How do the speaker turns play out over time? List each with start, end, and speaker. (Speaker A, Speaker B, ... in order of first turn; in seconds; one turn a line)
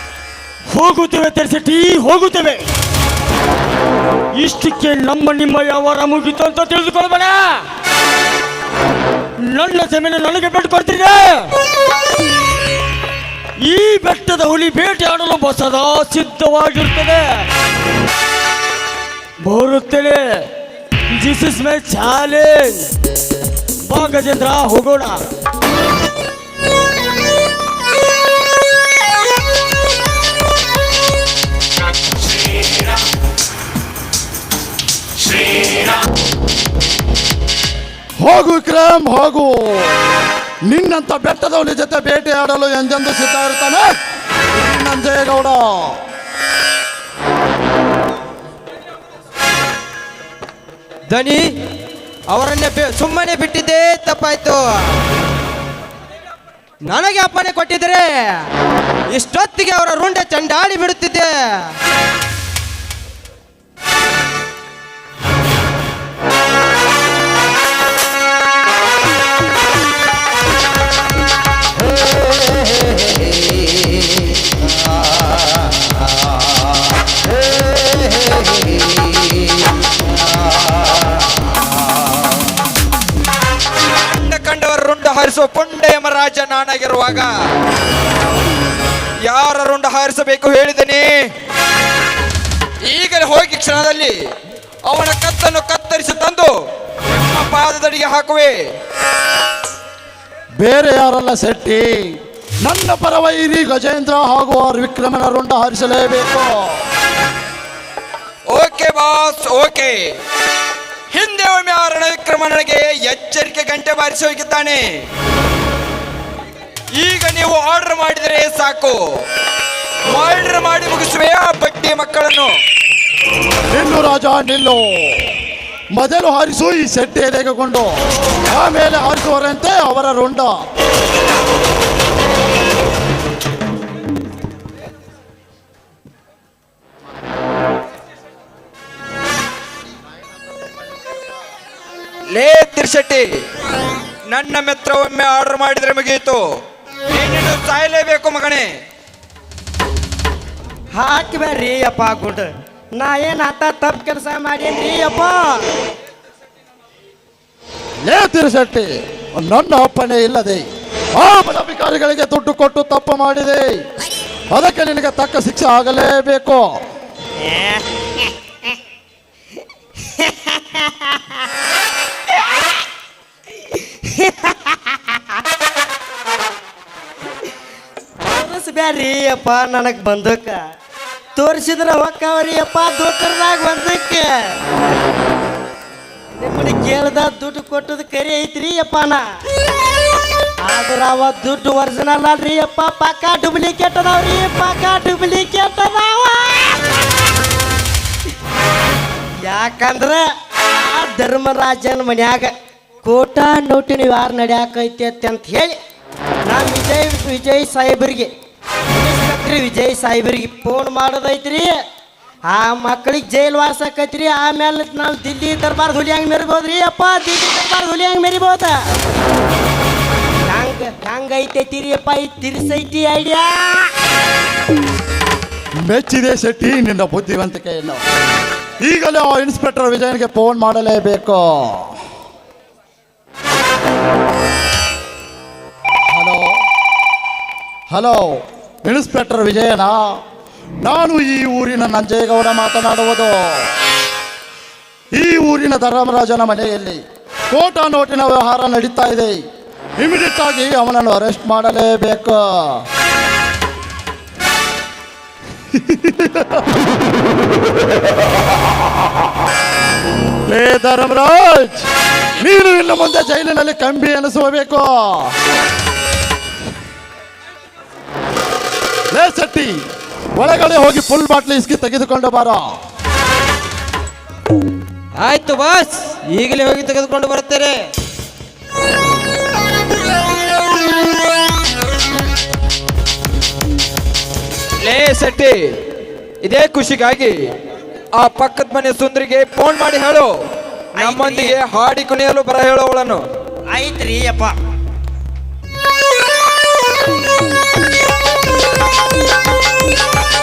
Speaker A: 0.7-2.6
Speaker A: 4.4-7.6
Speaker A: 9.4-11.5
Speaker A: 13.6-17.4
Speaker A: 19.4-20.5
Speaker A: 21.1-22.9
Speaker A: 23.9-25.2
Speaker B: 38.2-39.9
Speaker B: 40.7-43.9
Speaker B: 44.5-46.0
Speaker C: 51.1-51.5
Speaker C: 52.3-54.6
Speaker C: 56.9-58.5
Speaker C: 59.1-61.7
Speaker D: 84.0-87.3
Speaker D: 89.3-91.2
Speaker D: 92.9-94.2
Speaker D: 94.9-96.5
Speaker D: 97.2-98.5
Speaker B: 100.6-106.8
Speaker D: 108.5-110.2
Speaker D: 111.1-115.0
Speaker D: 117.0-119.0
Speaker D: 120.1-122.5
Speaker B: 123.7-125.3
Speaker B: 125.9-130.6
Speaker D: 142.3-143.3
Speaker D: 144.3-146.4
Speaker D: 147.1-148.7
Speaker E: 151.0-155.6
Speaker B: 158.1-163.8
Speaker B: 164.5-166.7
Speaker E: 167.4-168.2
Speaker E: 170.1-171.3
Speaker E: 173.7-175.0
Speaker E: 178.2-180.6
Speaker E: 181.4-184.3
Speaker E: 186.4-189.2
Speaker E: 190.7-196.8
Speaker E: 199.4-200.2
Speaker E: 200.8-202.5
Speaker E: 203.0-205.8
Speaker E: 206.5-208.3
Speaker E: 208.9-211.8
Speaker E: 212.5-218.8
Speaker E: 220.5-223.9
Speaker B: 225.8-228.0
Speaker B: 228.8-231.9
Speaker B: 236.1-236.6
Speaker B: 237.9-240.2
Speaker B: 240.8-243.7
Speaker B: 245.2-249.4
Speaker B: 250.0-252.8
Speaker B: 255.7-256.8
Speaker B: 260.5-261.9
Speaker B: 262.4-265.4
Speaker B: 269.1-269.8
Speaker B: 270.4-272.6
Speaker C: 275.2-277.8
Speaker D: 284.8-285.7
Speaker D: 286.4-287.4
Speaker D: 288.1-290.3
Speaker E: 291.0-291.6
Speaker D: 291.0-293.2
Speaker E: 293.7-294.6